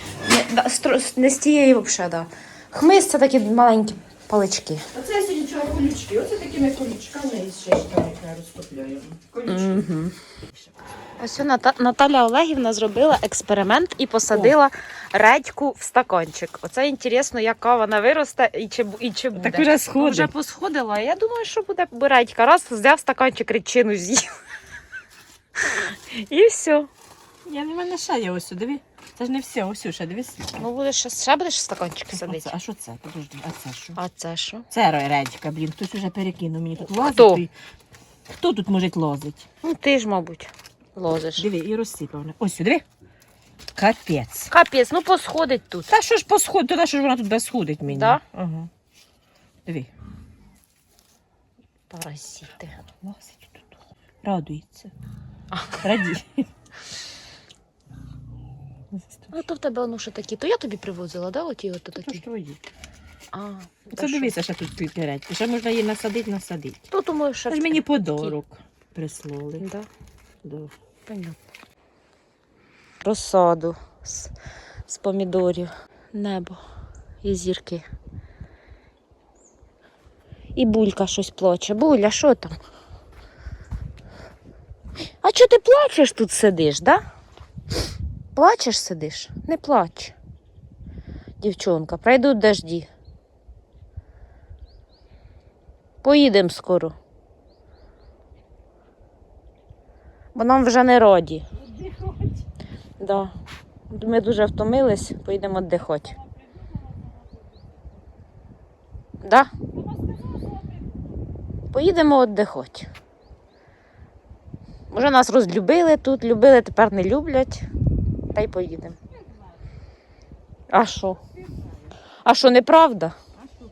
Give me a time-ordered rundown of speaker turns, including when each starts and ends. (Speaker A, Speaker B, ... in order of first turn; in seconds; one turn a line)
Speaker A: 0.2-4.9
Speaker B: 4.9-9.8
Speaker A: 9.5-10.2
Speaker A: 11.2-24.3
Speaker B: 19.4-20.3
Speaker A: 25.8-26.9
Speaker B: 27.5-30.6
Speaker A: 30.6-32.5
Speaker B: 32.1-34.0
Speaker A: 34.0-34.7
Speaker B: 34.7-37.5
Speaker A: 37.0-37.5
Speaker B: 38.3-39.5
Speaker A: 39.6-41.5
Speaker B: 41.4-42.8
Speaker B: 43.8-44.5
Speaker A: 44.5-45.9
Speaker B: 45.9-48.7
Speaker A: 47.9-48.2
Speaker A: 51.9-52.7
Speaker B: 53.0-53.7
Speaker B: 54.2-54.9
Speaker A: 55.5-55.8
Speaker B: 55.8-56.5
Speaker A: 59.3-62.2
Speaker B: 62.0-62.6
Speaker A: 63.3-64.3
Speaker B: 63.9-66.9
Speaker A: 66.9-68.3
Speaker B: 67.5-69.6
Speaker A: 69.6-69.9
Speaker B: 70.4-70.7
Speaker A: 71.1-71.4
Speaker A: 73.0-74.3
Speaker A: 74.9-76.6
Speaker A: 77.2-77.9
Speaker A: 80.6-82.6
Speaker A: 85.2-87.0
Speaker A: 88.3-90.1
Speaker A: 91.4-92.9
Speaker A: 96.0-97.0
Speaker A: 100.3-101.5
Speaker A: 103.0-103.3
Speaker A: 103.9-106.2
Speaker A: 109.2-109.5
Speaker A: 111.7-112.9
Speaker A: 114.9-117.7
Speaker A: 118.3-119.0
Speaker A: 120.7-121.2
Speaker A: 122.2-123.2